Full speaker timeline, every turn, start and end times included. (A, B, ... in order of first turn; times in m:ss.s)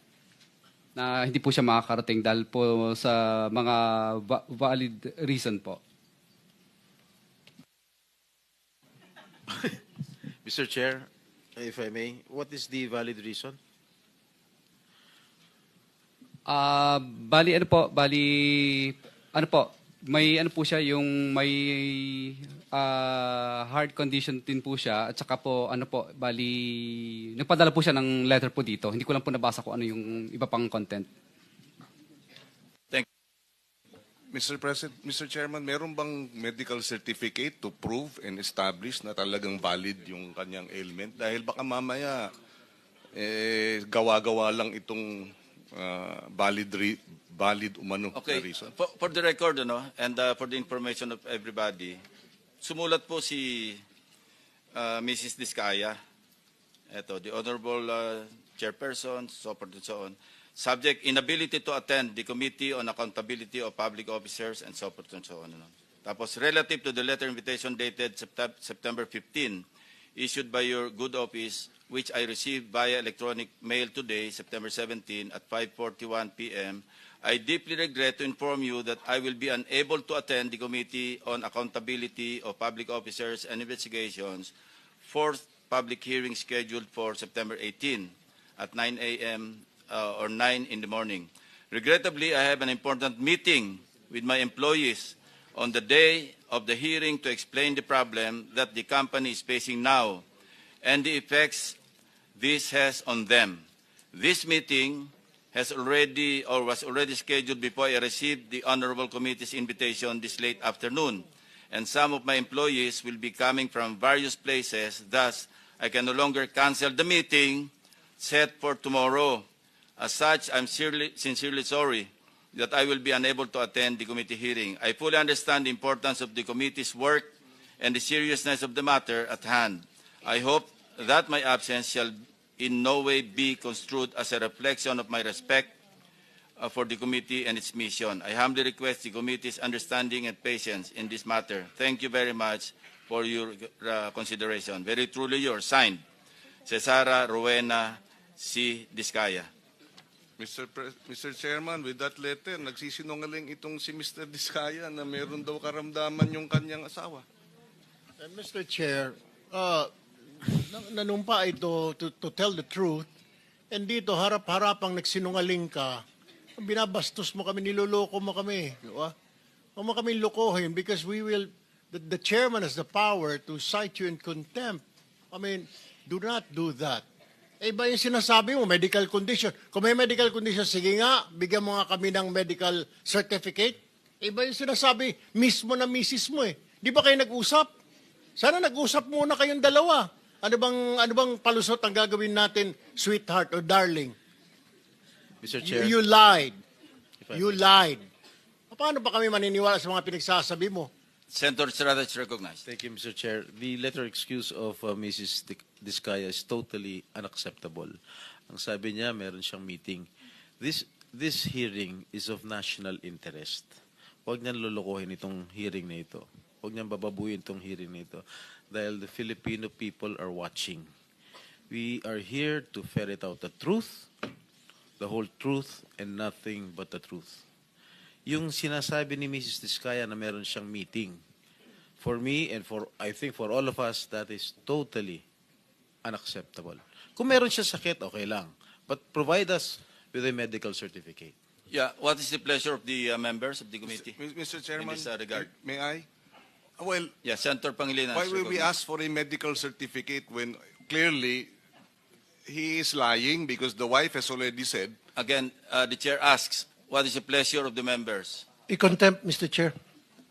0:01.0-0:05.8 A
0:09.5-0:09.8 B
0:10.4-0:13.6 B
0:16.5-0:31.1 A
0:34.3-0:42.3 C
0:43.1-0:48.7 C
0:48.1-0:52.0 D
0:52.6-0:53.8 D
0:54.7-0:56.0 D
0:56.9-1:09.6 D
1:10.2-1:24.5 D
1:25.0-1:40.2 D
1:40.8-1:41.8 D
1:42.4-1:59.5 D
2:00.0-2:15.7 D
2:16.6-2:26.0 D
2:26.7-2:29.5 D
2:30.4-2:37.2 C
2:38.2-2:43.1 E
2:43.7-2:46.0 E
2:46.6-2:49.1 E
2:49.8-2:57.0 E
2:57.6-3:07.7 E
3:08.4-3:14.2 E
3:15.4-3:16.0 B
3:15.6-3:16.6 E
3:17.2-3:17.6 B
3:17.3-3:18.0 E
3:18.7-3:20.9 E
3:21.3-3:22.6 D
3:22.6-3:28.0 B
3:28.5-3:30.1 B
3:30.6-3:40.9 B
3:41.7-3:44.2 B
3:45.0-3:47.4 B
3:48.2-3:51.2 B
3:52.0-3:55.2 B
3:56.0-4:01.3 B
4:01.7-4:04.2 D
4:03.8-4:06.1 C
4:04.8-4:05.5 D
4:06.8-4:07.1 C
4:07.2-4:08.7 D
4:08.1-4:11.5 C
4:12.4-4:15.0 C
4:15.2-4:18.4 D
4:18.7-4:19.8 E